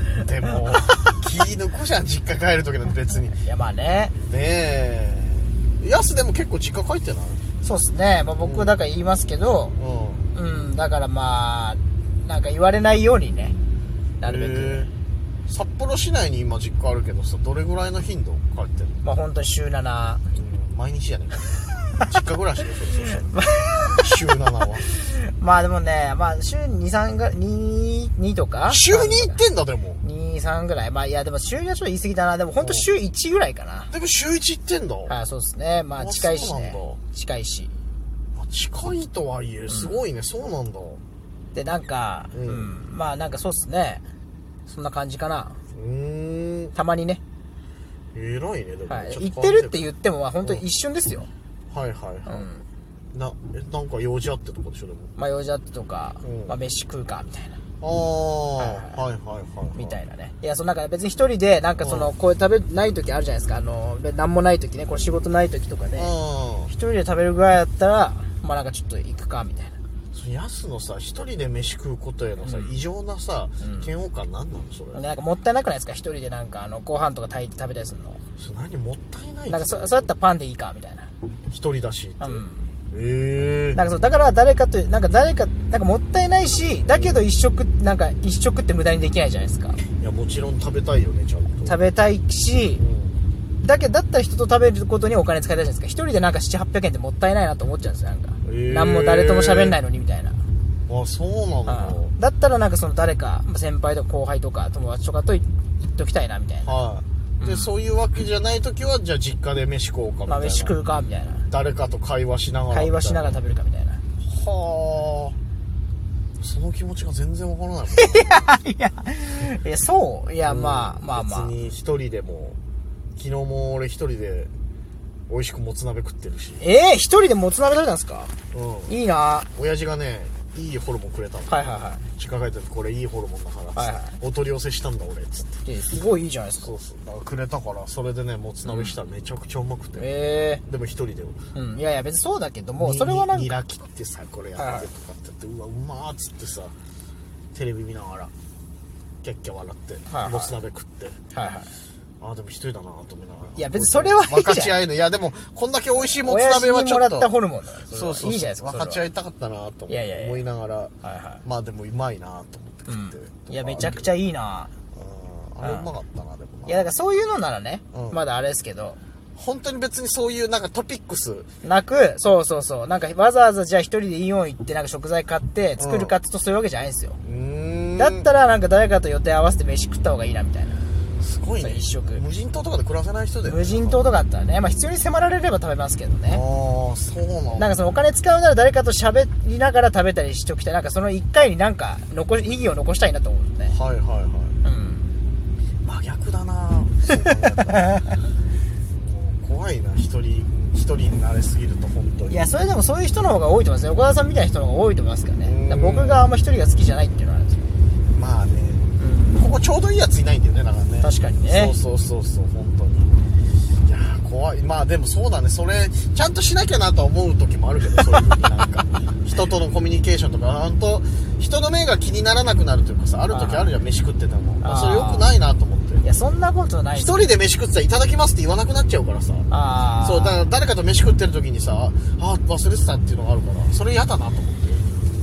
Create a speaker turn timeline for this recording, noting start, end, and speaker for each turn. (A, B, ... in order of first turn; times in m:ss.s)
0:00.2-0:03.4 A
0:03.4-0:04.1 B
0:04.1-0:07.4 A
0:07.6-0:09.8 B
0:08.4-0:08.7 A
0:09.8-0:10.3 A
0:10.3-0:13.6 B
0:14.2-0:14.9 B
0:14.2-0:14.9 A
0:15.5-0:19.0 A
0:19.0-0:20.2 B
0:20.3-0:23.4 A
0:23.3-0:24.0 B
0:23.9-0:24.9 A
0:24.9-0:29.4 B
0:28.6-0:30.0 A
0:30.0-0:33.9 B
0:32.6-0:32.9 A
0:33.9-0:35.1 A
0:35.1-0:37.7 B
0:36.0-0:37.0 A
0:38.4-0:41.0 A
0:39.7-0:40.0 B
0:41.5-0:44.0 B
0:42.3-0:42.8 A
0:44.7-0:45.6 B
0:45.7-0:46.7 A
0:46.8-0:47.2 B
0:48.1-0:49.9 A
0:48.9-0:51.3 B
0:51.7-0:52.4 A
0:52.3-0:52.6 B
0:53.1-0:55.1 A
0:55.2-0:57.6 B
0:56.2-0:56.6 A
0:57.8-1:00.0 A
0:58.6-0:59.0 B
0:59.8-1:06.1 B
1:01.8-1:02.1 A
1:06.0-1:06.7 A
1:06.7-1:09.8 B
1:10.1-1:15.0 A
1:12.4-1:12.8 B
1:13.6-1:13.9 B
1:14.9-1:18.2 B
1:18.4-1:20.1 A
1:19.5-1:21.1 B
1:21.5-1:23.8 A
1:22.2-1:22.7 B
1:23.7-1:29.8 B
1:26.8-1:27.2 A
1:30.0-1:31.8 A
1:31.6-1:32.8 B
1:32.8-1:33.2 A
1:33.6-1:40.4 B
1:38.4-1:39.8 A
1:40.9-1:42.1 A
1:41.7-1:46.8 B
1:46.6-1:50.8 A
1:47.4-1:47.7 B
1:50.3-1:51.5 B
1:51.5-1:53.4 A
1:52.7-1:54.0 B
1:54.2-1:55.4 A
1:56.4-1:58.5 A
1:58.0-2:01.5 B
2:00.4-2:02.6 A
2:03.2-2:04.5 A
2:05.3-2:06.6 A
2:06.6-2:08.3 B
2:08.5-2:09.0 A
2:08.9-2:09.5 B
2:09.6-2:15.6 A
2:11.5-2:12.0 B
2:13.8-2:14.2 B
2:15.6-2:16.7 B
2:16.6-2:20.1 A
2:18.6-2:19.0 B
2:20.0-2:20.6 B
2:20.6-2:21.4 A
2:21.6-2:23.5 B
2:22.8-2:26.7 A
2:24.6-2:24.9 B
2:27.5-2:28.3 A
2:29.2-2:31.2 A
2:30.1-2:30.6 B
2:31.3-2:31.7 B
2:32.2-2:37.3 A
2:33.6-2:34.8 B
2:36.0-2:39.0 B
2:37.9-2:40.9 A
2:39.9-2:40.4 B
2:41.0-2:41.4 B
2:41.4-2:44.1 A
2:42.9-2:44.7 B
2:44.9-2:46.9 A
2:45.6-2:45.9 B
2:46.7-2:49.0 B
2:49.4-2:51.5 A
2:51.6-2:57.2 B
2:55.8-2:56.2 A
2:57.2-2:58.3 A
2:58.0-3:00.8 B
3:01.2-3:04.1 A
3:01.6-3:02.2 B
3:03.4-3:06.4 B
3:06.3-3:07.8 A
3:07.6-3:13.8 B
3:13.7-3:14.6 A
3:14.6-3:15.1 B
3:15.8-3:18.1 A
3:17.7-3:18.0 B
3:18.9-3:22.4 A
3:22.3-3:27.7 B
3:25.4-3:26.3 A
3:28.1-3:33.1 A
3:29.0-3:29.5 B
3:31.0-3:31.8 B
3:33.8-3:46.0 A
3:43.3-3:43.7 B
3:44.6-3:45.3 B
3:46.0-3:47.3 B
3:46.9-3:49.5 A
3:49.5-3:50.5 B
3:50.0-3:55.0 A